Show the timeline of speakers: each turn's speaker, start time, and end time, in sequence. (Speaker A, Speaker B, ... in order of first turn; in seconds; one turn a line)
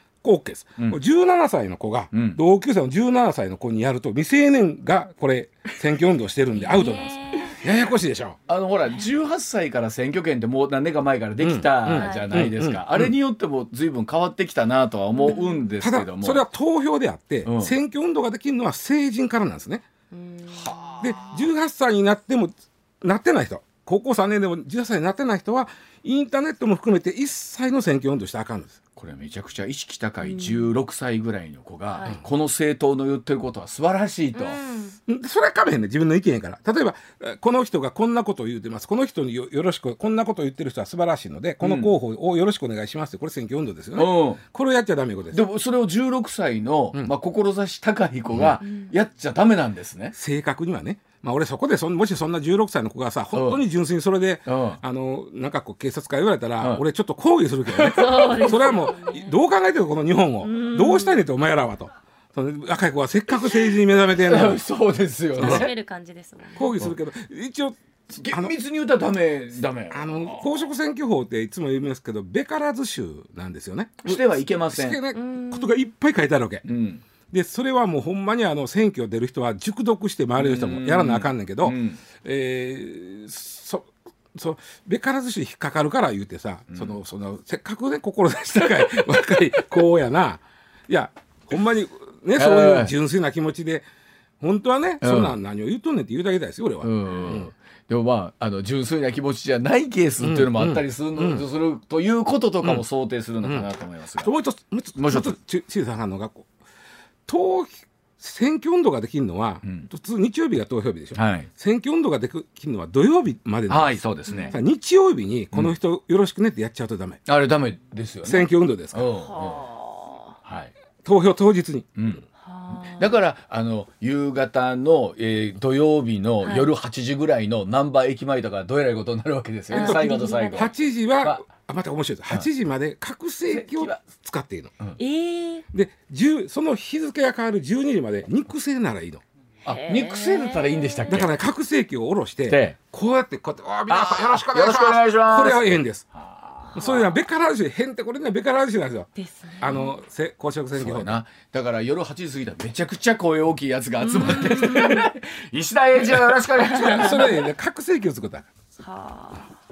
Speaker A: 0.2-8.4
Speaker B: 2.1-2.4
Speaker C: 6.5-7.6
Speaker B: 8.5-16.4
Speaker A: 11.4-13.1
Speaker C: 11.9-12.3
Speaker C: 15.1-15.7
Speaker A: 15.8-19.8
Speaker B: 17.4-17.7
Speaker C: 20.1-21.0
Speaker B: 20.5-21.4
Speaker A: 21.0-28.8
Speaker B: 28.9-34.6
Speaker C: 30.2-30.7
Speaker C: 34.3-35.0
Speaker A: 35.1-45.4
Speaker B: 41.6-41.9
Speaker B: 43.9-44.4
Speaker B: 45.3-50.1
Speaker A: 50.1-64.6
Speaker B: 53.3-53.6
Speaker B: 54.5-54.8
Speaker B: 57.7-58.3
Speaker C: 57.8-59.3
Speaker C: 60.4-61.2
Speaker B: 64.1-65.7
Speaker C: 65.3-66.7
Speaker A: 65.4-65.7
Speaker A: 66.6-68.5
Speaker B: 68.1-70.6
Speaker A: 69.9-76.7
Speaker B: 74.0-75.0
Speaker C: 75.1-75.9
Speaker B: 76.6-77.0
Speaker A: 77.3-93.8
Speaker B: 80.4-82.0
Speaker B: 92.3-92.9
Speaker A: 94.4-97.5
Speaker B: 95.0-95.3
Speaker B: 96.8-104.3
Speaker A: 100.2-101.4
Speaker A: 104.2-106.5
Speaker B: 105.0-105.3
Speaker A: 107.3-117.2
Speaker B: 109.6-109.9
Speaker B: 111.1-111.5
Speaker B: 113.7-114.6
Speaker C: 114.3-114.5
Speaker B: 117.3-119.7
Speaker A: 118.2-119.1
Speaker C: 119.2-120.3
Speaker B: 120.4-120.7
Speaker A: 121.0-122.0
Speaker B: 122.0-131.4
Speaker C: 122.4-123.1
Speaker C: 126.4-126.7
Speaker C: 129.7-130.7
Speaker A: 129.7-134.7
Speaker B: 133.5-134.0
Speaker C: 135.0-135.6
Speaker A: 135.7-139.2
Speaker B: 139.6-141.3
Speaker C: 139.7-141.2
Speaker A: 141.1-146.1
Speaker B: 142.5-142.8
Speaker B: 143.9-147.1
Speaker A: 146.7-151.2
Speaker C: 149.2-149.9
Speaker B: 150.7-157.3
Speaker C: 154.0-155.1
Speaker A: 156.7-158.5
Speaker C: 156.8-157.3
Speaker C: 158.8-159.5